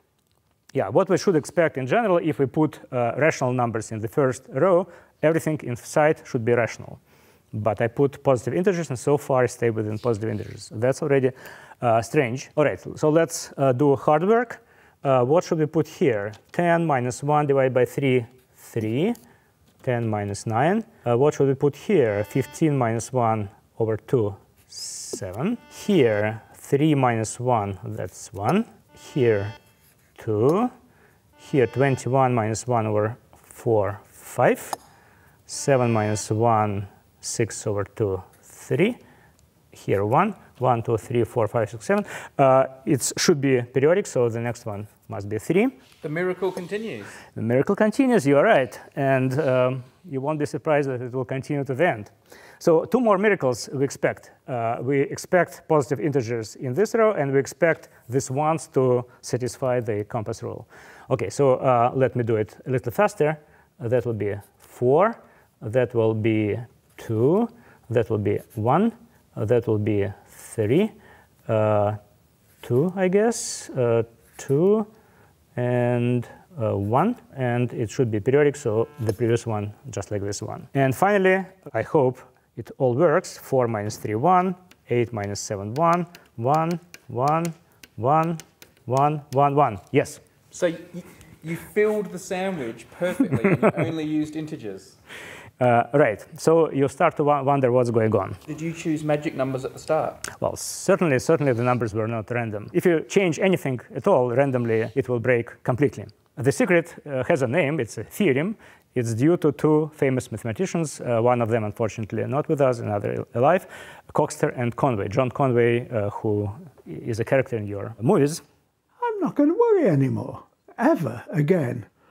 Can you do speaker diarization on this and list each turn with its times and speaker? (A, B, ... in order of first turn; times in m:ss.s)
0:00.7-0:07.0 A
0:07.5-0:19.2 A
0:19.8-0:29.6 A
0:30.2-0:30.7 A
0:31.4-0:34.8 A
0:35.5-0:39.0 A
0:39.7-0:45.8 A
0:46.0-0:47.1 B
0:47.3-1:10.9 A
1:11.5-1:12.0 A
1:12.6-1:14.9 A
1:15.5-1:30.2 A
1:30.5-1:35.0 B
1:35.6-1:38.4 A
1:38.5-1:40.2 B
1:40.3-1:58.4 A
1:59.0-2:01.9 C